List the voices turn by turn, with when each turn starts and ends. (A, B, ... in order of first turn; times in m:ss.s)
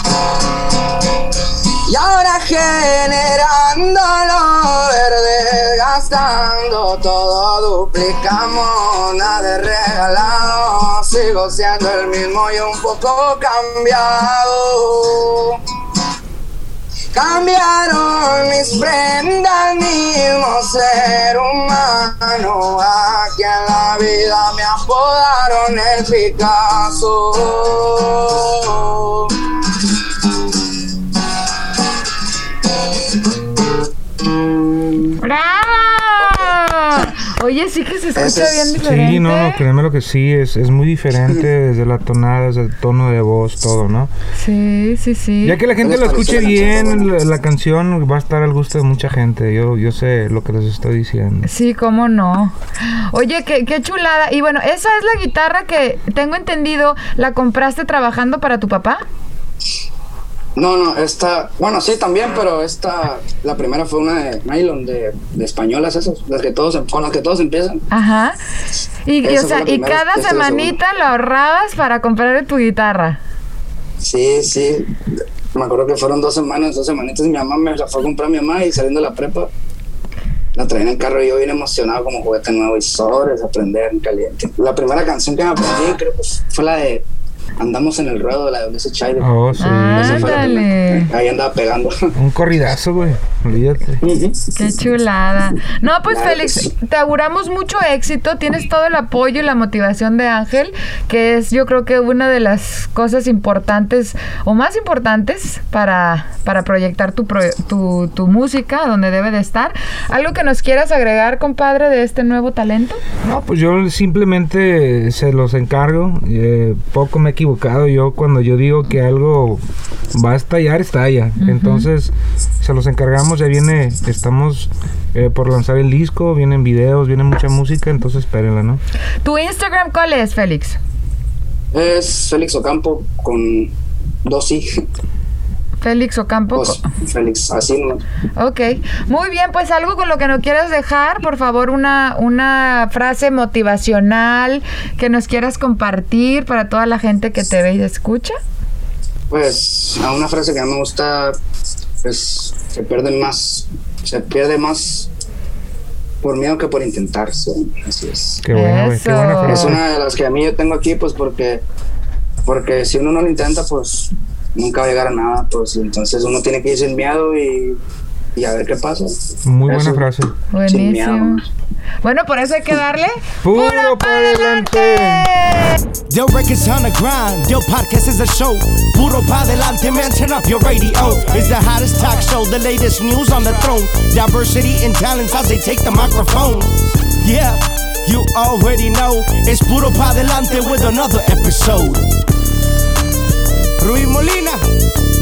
0:01.8-0:15.6 A
0:17.1-0:29.5 A
0:34.3-0:35.1 A
0:35.2-0:39.6 B
0:38.2-0:38.8 A
0:38.8-0:44.1 C
0:44.3-0:45.6 B
0:45.4-0:51.5 C
0:45.8-0:47.1 A
0:51.4-0:59.0 B
1:00.6-1:07.8 A
1:07.9-1:08.4 B
1:09.0-1:13.2 B
1:09.2-1:10.8 A
1:14.0-1:14.9 A
1:15.5-1:19.5 A
1:20.5-1:27.0 A
1:27.6-1:29.3 A
1:29.2-1:30.4 C
1:29.6-1:31.1 B
1:29.9-1:32.1 A
1:32.1-1:34.0 C
1:34.0-1:34.4 A
1:34.5-1:53.0 B
1:36.1-1:36.7 A
1:53.2-1:59.6 C
2:00.1-2:08.8 C
2:01.4-2:01.9 B
2:09.2-2:10.8 B
2:11.7-2:13.7 A
2:14.2-2:14.7 A
2:15.8-2:16.8 B
2:16.5-2:18.0 A
2:18.4-2:28.4 B
2:29.3-2:31.4 A
2:32.0-2:35.1 A
2:36.2-2:38.4 A
2:38.4-2:39.8 C
2:38.5-2:39.8 B
2:39.4-2:41.6 A
2:42.4-2:47.8 A
2:48.3-2:49.2 A
2:49.4-2:50.3 C
2:49.7-2:50.1 A
2:50.5-2:51.4 B
2:50.6-2:51.5 A
2:52.0-2:55.8 B
2:53.4-2:55.3 C
2:56.1-3:12.0 D
3:13.8-3:14.6 D